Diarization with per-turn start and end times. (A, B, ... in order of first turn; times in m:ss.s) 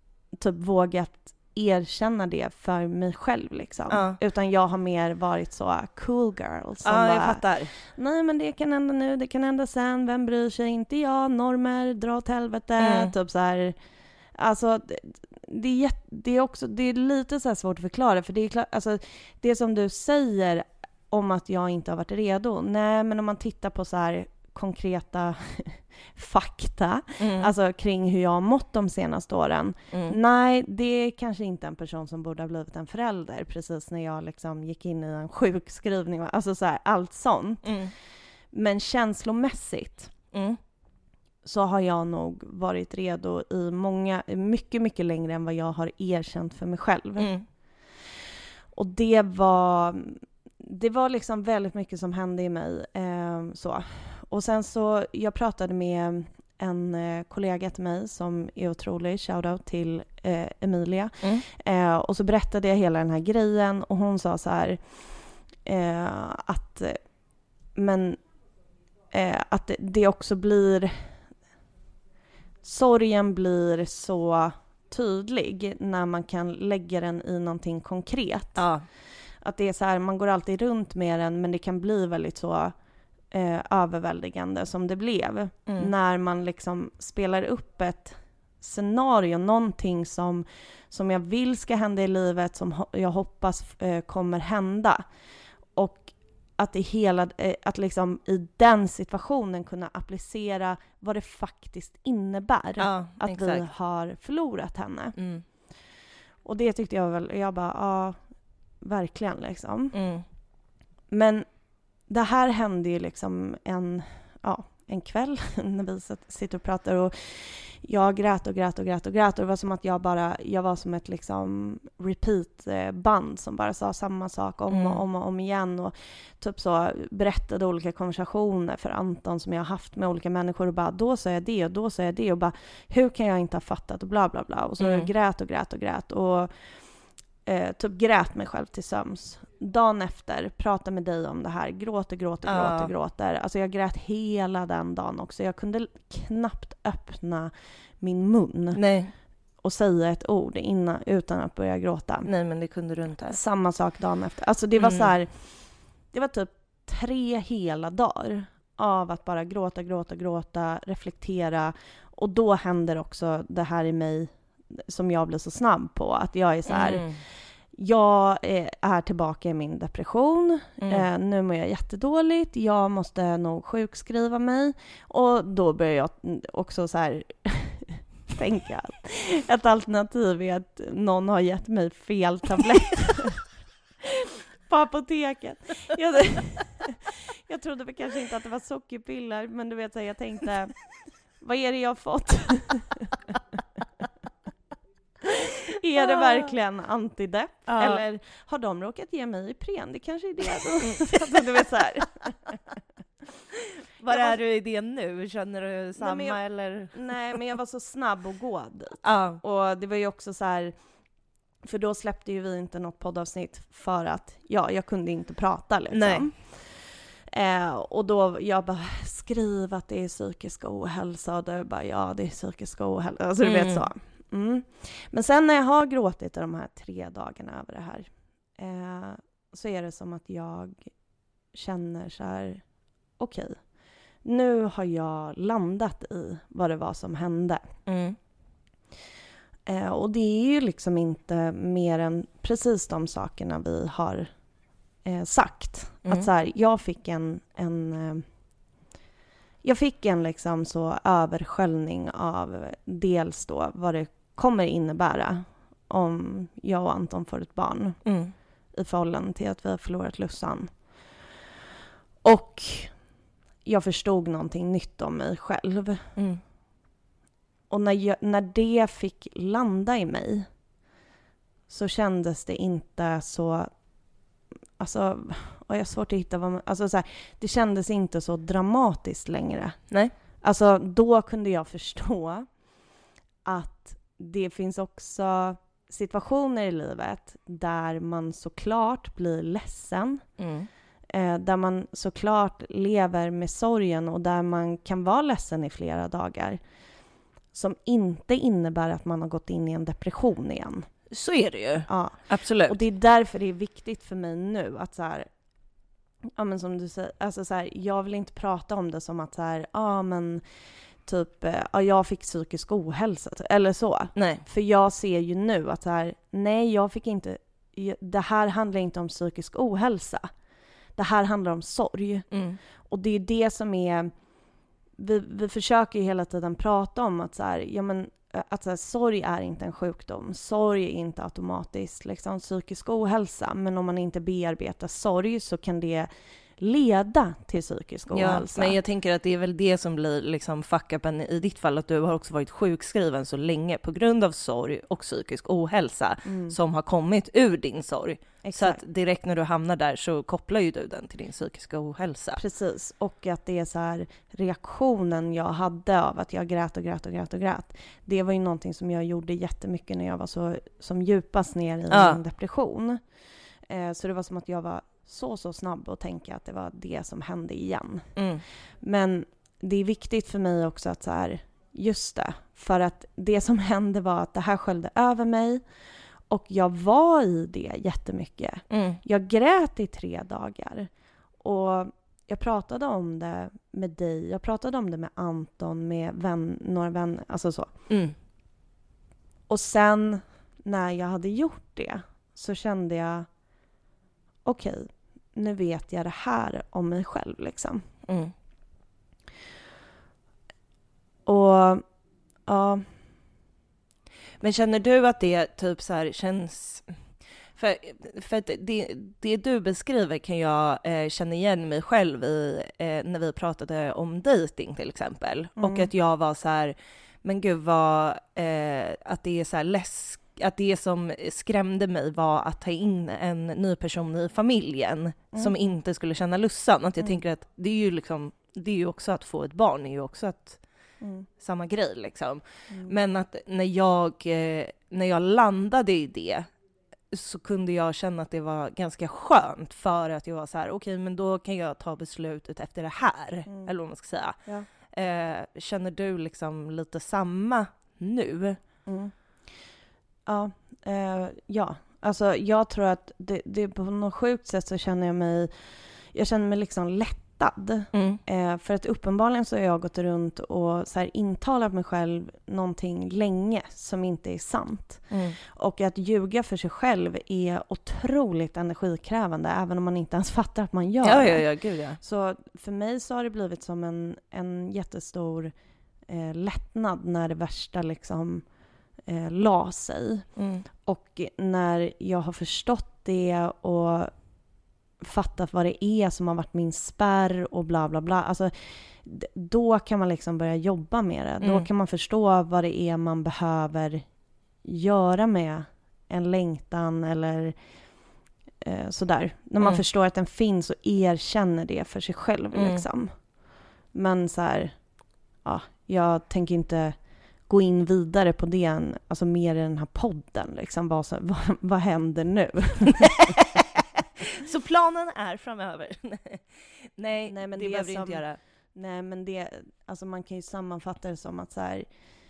0:00.3-0:13.8 A
0:03.9-0:04.2 B
0:06.8-0:07.8 B
0:12.8-0:13.1 B
0:14.4-0:37.9 A
0:27.2-0:27.5 B
0:37.6-0:37.9 B
0:38.5-0:40.1 A
0:40.3-0:40.6 B
0:41.4-0:47.3 A
0:47.2-0:47.5 B
0:48.7-1:07.0 A
1:07.7-1:08.2 A
1:09.1-1:11.2 A
1:12.6-1:18.7 A
1:18.6-1:18.9 B
1:19.4-1:22.8 A
1:23.3-1:35.0 A
1:35.7-1:45.2 A
1:42.8-1:43.7 B
1:45.2-1:45.4 B
1:46.4-1:48.2 A
1:48.8-1:50.0 A
1:49.9-1:50.2 B
1:51.1-1:51.5 A
1:52.0-2:16.8 A
2:04.7-2:05.0 B
2:14.8-2:15.1 B
2:17.4-2:28.8 A
2:22.4-2:22.9 B
2:28.7-2:29.1 B
2:29.6-2:32.3 A
2:32.2-2:33.4 B
2:33.3-3:03.5 A
2:34.8-2:35.1 B
2:46.7-2:47.2 B
3:04.7-3:13.1 A
3:15.7-3:22.6 A
3:17.7-3:18.0 B
3:20.9-3:21.3 B
3:23.6-3:27.0 B
3:24.1-3:24.4 A
3:26.0-3:30.8 A
3:29.0-3:29.4 B
3:31.6-3:50.9 A
3:35.9-3:36.3 B
3:43.4-3:43.8 B
3:51.5-3:52.6 A
3:53.2-3:53.7 A
3:54.2-3:57.7 A
3:57.9-3:58.2 B
3:59.7-4:04.3 A
4:05.0-4:08.3 A
4:09.6-4:18.1 A
4:18.0-4:18.3 B
4:18.7-4:21.2 A
4:22.2-4:23.0 A
4:23.6-4:26.1 A
4:26.2-4:26.4 B
4:27.7-4:30.5 A
4:31.7-4:33.8 A
4:34.8-4:42.5 A
4:43.4-4:50.2 A
4:50.4-4:50.7 B
4:51.1-4:56.6 A
4:57.5-5:00.9 A
5:01.1-5:02.8 B
5:01.9-5:05.3 A
5:06.4-5:10.4 A
5:11.0-5:20.3 A
5:14.2-5:14.4 B
5:21.0-5:22.3 A
5:22.3-5:22.6 B
5:22.8-5:24.1 A
5:25.0-5:38.8 A
5:38.1-5:52.4 B
5:46.2-5:46.6 A
5:48.4-5:48.8 A
5:52.4-6:03.0 A
6:01.9-6:02.2 B
6:03.7-6:08.1 A
6:08.2-6:08.4 B
6:08.8-6:15.6 A
6:16.3-6:20.9 A
6:18.7-6:19.0 B
6:21.4-6:27.7 A
6:27.9-6:28.2 B
6:29.5-6:33.3 A
6:34.4-6:37.8 A
6:38.1-6:38.3 B
6:41.3-6:41.8 A
6:42.4-6:42.9 A
6:44.4-6:47.0 B
6:47.6-7:10.6 B
6:55.6-6:55.9 A
7:11.0-7:11.3 A
7:11.4-7:16.5 B
7:12.7-7:13.0 A
7:17.1-7:28.6 B
7:23.5-7:23.7 A
7:28.9-7:29.1 A
7:30.3-7:55.5 A
7:37.9-7:38.2 B
7:45.1-7:45.4 B
7:51.0-7:52.0 B
7:56.1-7:58.5 A
7:59.1-8:04.1 A
8:00.4-8:00.7 B
8:05.0-8:14.1 A
8:11.4-8:11.7 B
8:14.6-8:17.6 A
8:18.6-8:23.3 A
8:22.5-8:22.8 B
8:23.9-8:33.2 A
8:33.4-8:33.6 B
8:34.2-8:38.4 B
8:37.3-8:41.9 A